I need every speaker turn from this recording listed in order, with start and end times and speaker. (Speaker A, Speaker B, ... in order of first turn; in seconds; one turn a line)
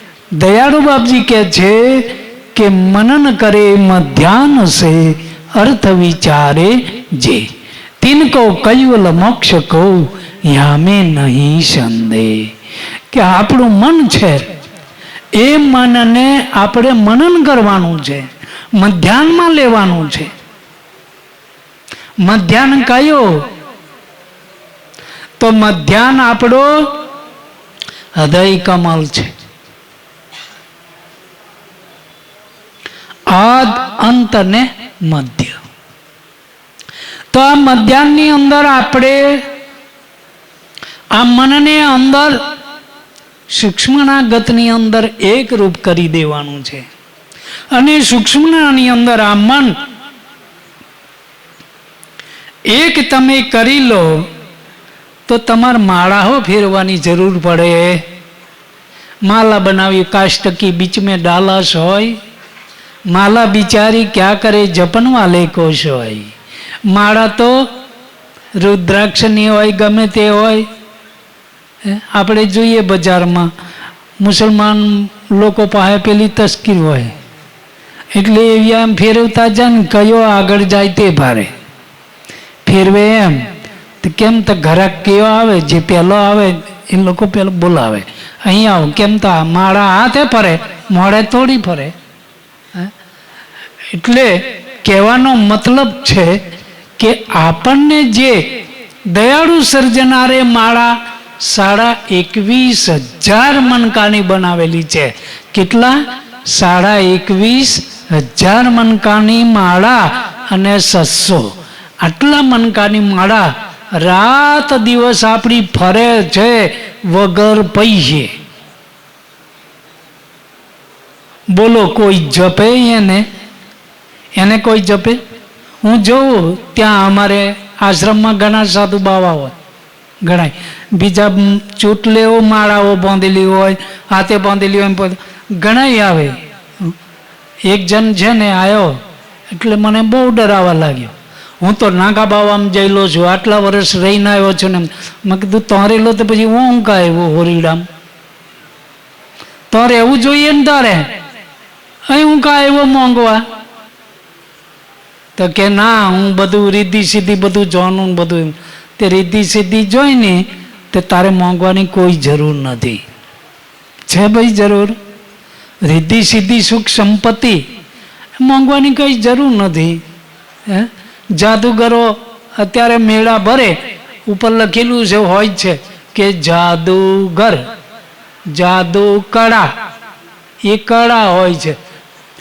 Speaker A: 0.4-7.5
Speaker A: 8.0-12.5
Speaker A: 13.1-14.5
Speaker A: 15.3-20.3
Speaker A: 22.2-23.4
Speaker A: 25.4-26.9
Speaker A: 28.2-29.3
Speaker A: 33.3-35.6
Speaker A: 37.3-39.4
Speaker A: 41.1-42.4
Speaker A: 43.5-46.9
Speaker A: 47.7-49.8
Speaker A: 52.7-54.2
Speaker A: 55.3-58.0
Speaker A: 59.2-62.2
Speaker A: 63.1-66.3
Speaker A: 66.9-67.7
Speaker A: 68.6-70.7
Speaker A: 71.8-73.5
Speaker A: 74.2-77.1
Speaker A: 78.1-81.5
Speaker A: 82.6-83.5
Speaker A: 84.0-91.9
Speaker A: 93.9-96.4
Speaker A: 97.0-98.5
Speaker A: 99.1-118.3
Speaker A: 121.5-123.2
Speaker A: 124.3-125.2
Speaker A: 125.8-129.6
Speaker A: 130.2-136.9
Speaker A: 137.6-147.9
Speaker A: 149.7-151.1
Speaker A: 152.1-153.4
Speaker A: 155.4-163.0
Speaker A: 164.1-165.0
Speaker A: 165.8-167.6
Speaker A: 168.4-170.0
Speaker A: 170.7-177.7
Speaker A: 178.5-179.7
Speaker A: 180.6-181.8